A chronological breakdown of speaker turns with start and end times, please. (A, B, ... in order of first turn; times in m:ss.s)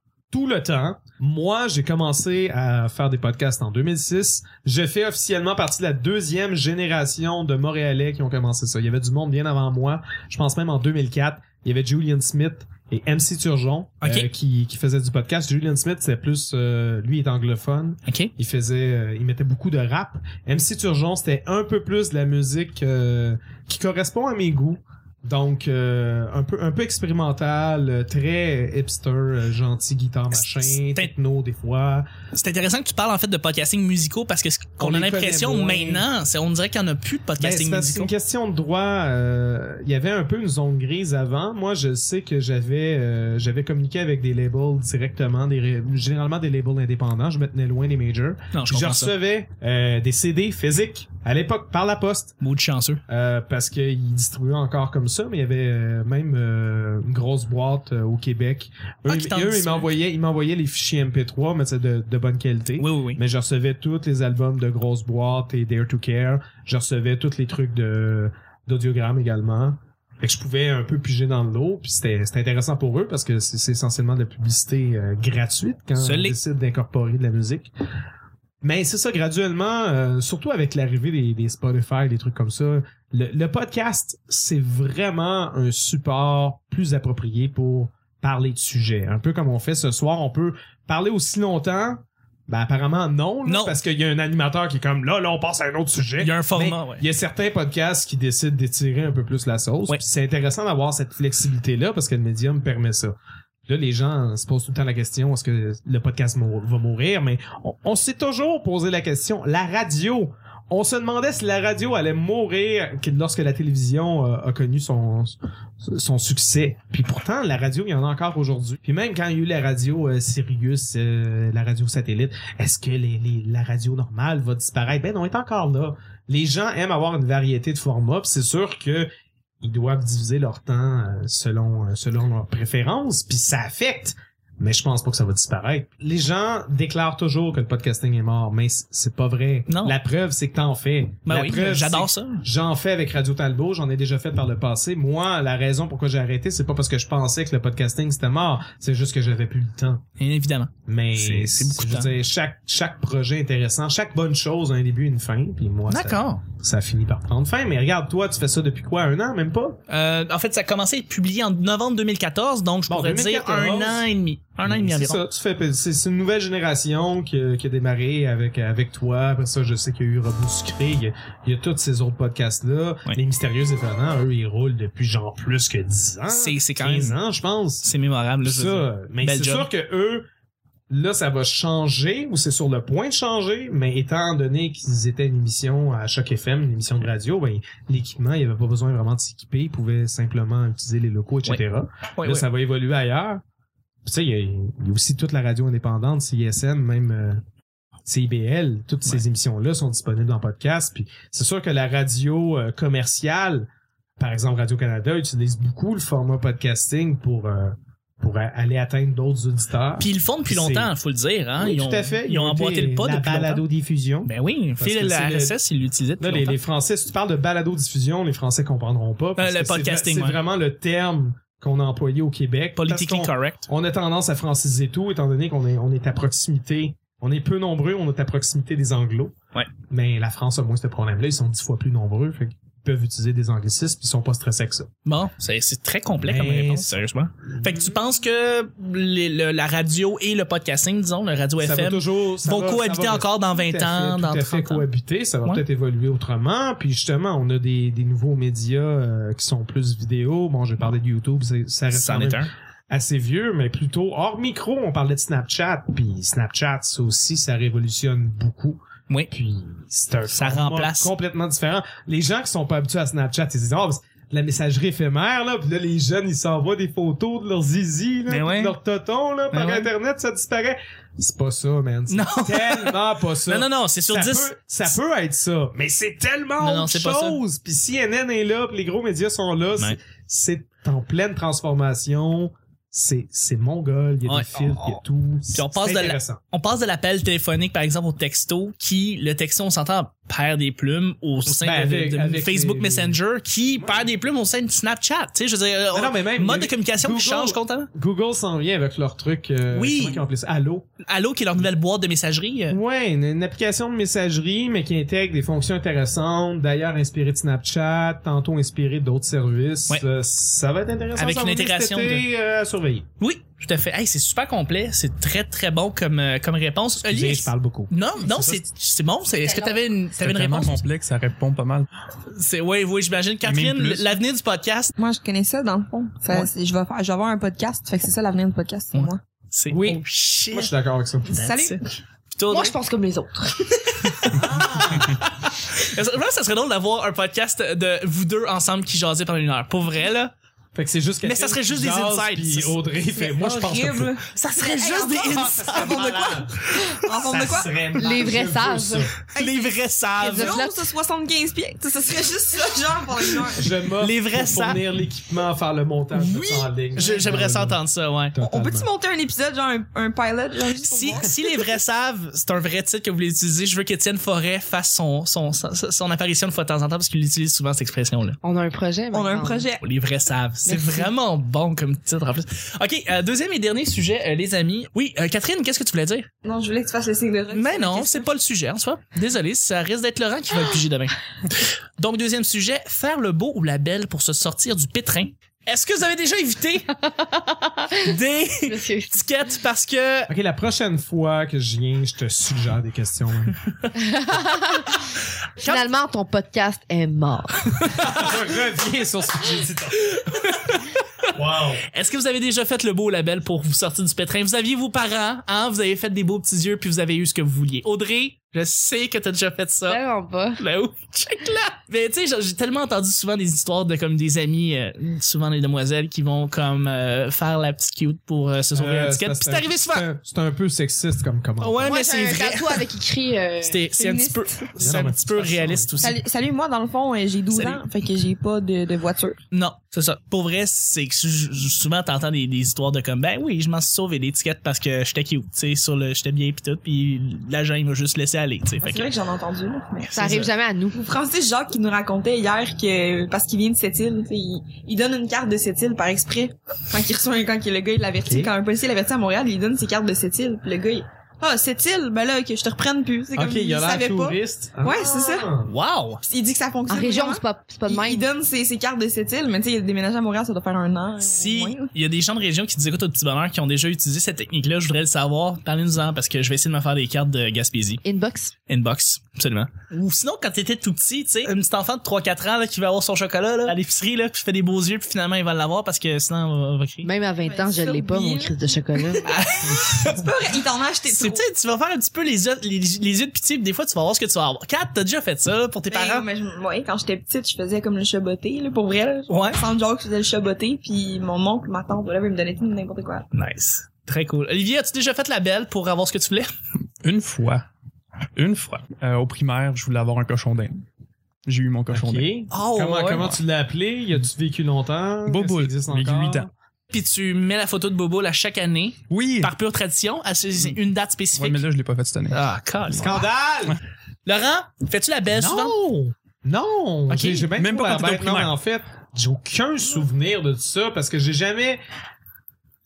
0:00.3-0:32.1 A
0:14.0-0:14.3 B
0:30.3-0:31.1 B
0:32.3-0:38.1 B
0:34.8-0:36.0 A
0:37.4-0:52.4 A
0:48.5-0:49.1 B
0:52.4-0:53.0 B
0:53.1-1:17.7 A
0:59.1-0:59.9 B
1:02.8-1:03.2 B
1:16.0-1:16.4 B
1:18.6-1:43.2 A
1:33.4-1:33.8 B
1:36.2-1:37.0 B
1:43.7-2:09.1 A
2:09.6-2:30.0 A
2:19.7-2:20.0 B
2:21.3-2:22.4 B
2:30.2-2:32.1 B
2:30.9-2:39.8 A
2:35.9-2:36.4 B
2:39.9-2:45.2 B
2:42.9-2:44.0 A
2:44.6-2:57.9 A
2:56.3-2:57.2 B
2:57.8-2:59.7 B
2:58.4-3:00.3 A
3:00.9-3:13.4 A
3:12.2-3:12.5 B
3:14.0-3:17.4 A
3:18.1-3:30.9 A
3:30.0-3:33.6 B
3:31.6-3:35.6 A
3:34.3-3:36.6 B
3:36.2-3:49.4 A
3:39.4-3:40.4 B
3:42.8-3:43.7 B
3:49.9-3:54.9 A
3:55.1-4:04.8 B
3:56.3-3:58.0 A
4:01.6-4:46.4 A
4:11.9-4:12.5 B
4:20.3-4:21.1 B
4:28.3-4:28.7 B
4:29.5-4:29.9 B
4:32.1-4:34.9 B
4:36.6-4:37.4 B
4:44.3-4:45.0 B
4:45.5-4:57.9 B
4:51.5-4:53.2 A
4:53.8-4:54.1 A
4:55.9-5:00.9 A
4:59.7-5:00.2 B
5:01.0-5:02.8 B
5:02.7-5:13.1 A
5:11.2-5:12.3 B
5:13.2-5:20.8 B
5:17.0-5:18.6 A
5:19.4-5:19.8 C
5:20.2-5:21.9 D
5:22.3-5:24.9 B
5:23.4-5:24.1 D
5:25.0-5:29.2 E
5:28.9-5:30.7 B
5:29.7-5:31.5 A
5:31.3-5:31.8 E
5:31.4-5:32.8 B
5:32.5-5:34.2 C
5:33.9-5:40.3 B
5:34.3-5:35.2 A
5:40.8-5:44.2 A
5:41.2-5:42.8 B
5:43.1-5:47.8 E
5:44.3-5:47.5 B
5:45.3-5:46.5 A
5:47.2-5:49.2 A
5:48.0-5:49.1 C
5:49.3-5:53.7 E
5:49.3-5:50.6 B
5:50.2-5:50.9 C
5:53.6-5:57.8 A
5:54.0-5:54.8 B
5:56.1-5:58.4 B
5:57.0-5:57.4 E
5:58.3-5:58.9 A
5:58.4-6:01.6 E
6:00.8-6:08.4 B
6:08.4-6:09.7 C
6:09.1-6:09.8 E
6:09.8-6:16.3 B
6:10.7-6:11.1 C
6:16.4-6:18.3 E
6:17.5-6:27.0 B
6:27.3-6:29.2 C
6:27.9-6:30.3 B
6:30.3-6:33.6 A
6:34.0-6:35.0 C
6:35.6-6:35.9 B
6:35.6-6:38.0 C
6:37.8-6:38.2 B
6:38.0-6:40.2 A
6:40.1-6:41.0 B
6:41.3-6:41.8 A
6:41.9-6:50.0 B
6:49.9-6:50.6 C
6:50.6-7:00.0 B
6:58.8-7:01.9 A
7:01.6-7:02.9 B
7:01.8-7:03.8 C
7:03.6-7:06.2 B
7:04.0-7:04.9 E
7:04.8-7:06.0 A
7:06.0-7:09.4 E
7:07.5-7:07.8 B
7:09.5-7:19.1 B
7:18.8-7:20.2 E
7:20.0-7:20.5 B
7:20.2-7:21.1 C
7:20.9-7:35.5 E
7:28.2-7:28.5 A
7:33.4-7:35.7 A
7:35.7-7:36.2 B
7:36.2-7:41.9 E
7:36.9-7:38.3 C
7:41.2-7:48.0 B
7:48.0-7:48.5 C
7:48.7-7:57.1 B
7:57.0-7:59.3 C
7:57.4-8:01.4 E
7:59.3-8:00.2 B
8:01.1-8:06.3 B
8:05.9-8:13.3 E
8:09.3-8:09.6 B
8:13.3-8:16.5 B
8:17.0-8:17.6 D
8:18.4-8:20.8 D
8:21.5-8:22.3 D
8:21.9-8:26.5 A
8:22.5-8:23.4 B
8:25.3-8:26.5 D
8:26.9-8:31.6 B
8:29.1-8:29.5 D
8:31.4-8:32.4 D
8:32.3-8:33.2 B
8:32.9-8:33.8 A
8:34.2-8:35.8 B
8:35.3-8:41.8 A
8:37.1-8:37.5 B
8:37.5-8:38.5 D